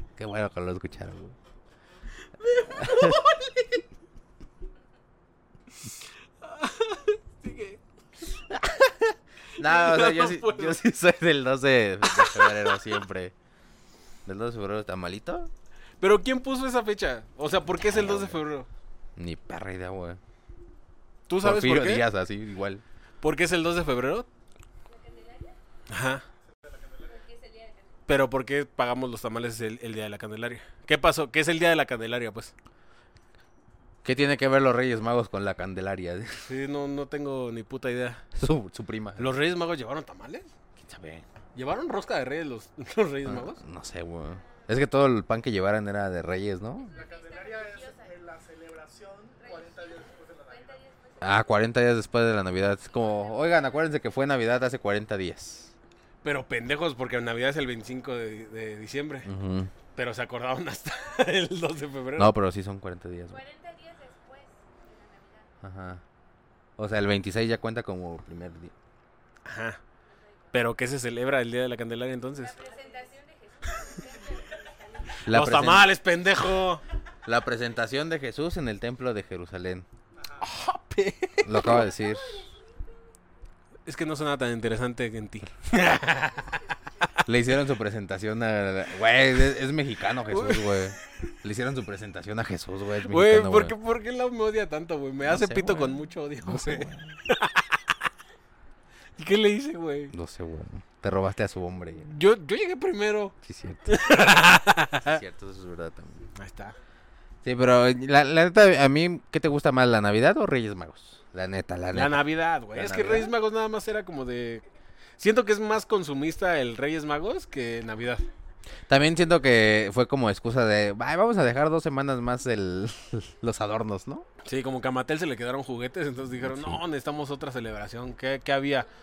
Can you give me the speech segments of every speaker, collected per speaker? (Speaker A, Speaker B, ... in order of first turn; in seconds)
Speaker A: 0.2-1.4, 2.7-3.2, 9.6-13.3, 14.2-15.5, 17.8-18.4, 19.2-20.2, 21.4-22.8, 34.0-36.5, 38.3-39.3, 40.8-41.3, 43.2-46.9, 51.2-55.7, 59.2-59.7, 62.2-63.4, 65.6-66.0, 66.8-68.7, 75.2-75.9, 77.2-79.9, 81.4-82.5, 87.2-93.7, 95.2-97.2, 100.1-102.1, 103.4-104.0, 105.0-106.3, 107.4-113.3, 118.9-124.3, 126.4-126.8
Speaker B: 2.4-3.8, 6.4-7.8, 9.6-10.8, 12.1-12.6, 16.0-18.7, 21.3-22.1, 23.2-24.3, 25.9-26.2, 28.1-32.5, 36.5-38.2, 39.2-40.5, 41.5-43.6, 56.2-59.3, 60.0-62.3, 69.5-69.8, 70.5-72.6, 75.3-76.8, 80.4-81.9, 83.9-86.6, 90.3-90.9, 93.0-97.9, 99.2-100.1, 102.1-103.4, 103.9-105.2, 106.3-106.8, 111.9-114.6, 115.2-118.3, 124.5-128.9
Speaker C: 24.9-25.6, 27.1-28.0, 46.8-48.1, 49.4-51.6, 52.9-53.7, 63.3-65.5, 72.5-75.3, 82.0-82.5
Speaker D: 26.6-27.2, 46.9-50.8